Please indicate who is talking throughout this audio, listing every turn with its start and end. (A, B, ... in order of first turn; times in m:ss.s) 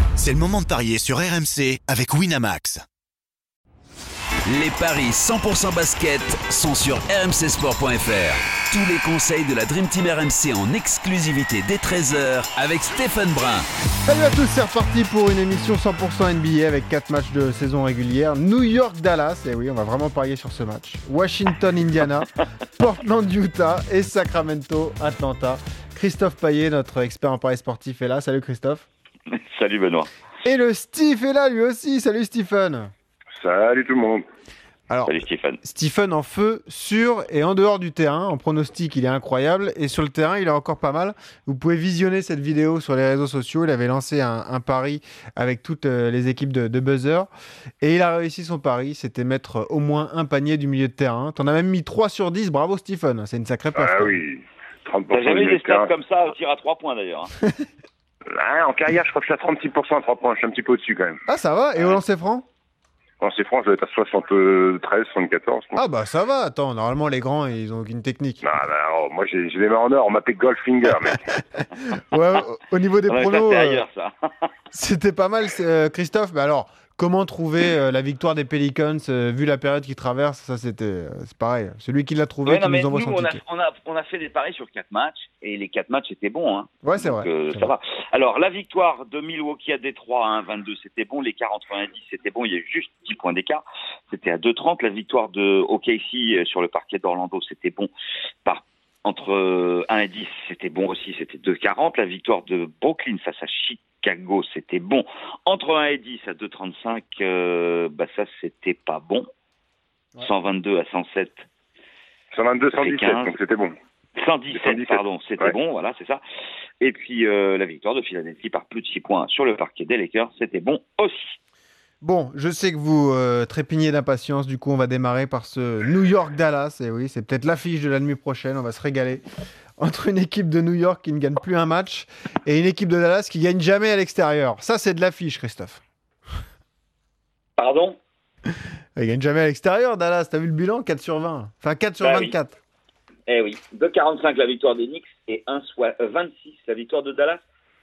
0:00.2-0:02.8 A
0:04.5-0:13.7 B
0:14.0-0:28.9 C
0:29.3-0:30.1 D
0:30.4-0:32.9 C
0:33.4-0:34.2 E
0:34.9-0:47.3 C
0:35.1-0:35.6 D
0:47.8-0:54.2 C
0:53.8-0:55.9 E
0:55.1-0:57.3 D
0:58.3-1:01.2 E
1:01.3-1:02.4 C
1:03.2-1:05.8 E
1:05.8-1:08.4 C
1:08.4-1:11.3 E
1:11.6-1:13.8 C
1:13.1-1:14.3 D
1:14.7-1:23.4 C
1:22.4-1:37.9 D
1:26.8-1:27.7 C
1:38.4-1:49.3 D
1:50.2-1:51.4 D
1:52.3-1:53.7 E
1:52.7-1:53.3 D
1:54.2-1:56.2 D
1:54.5-1:55.5 E
1:56.8-2:01.4 D
2:02.0-2:09.2 C
2:09.8-2:15.8 C
2:17.6-2:18.0 D
2:19.0-2:22.6 C
2:22.0-2:22.4 D
2:23.3-2:27.4 D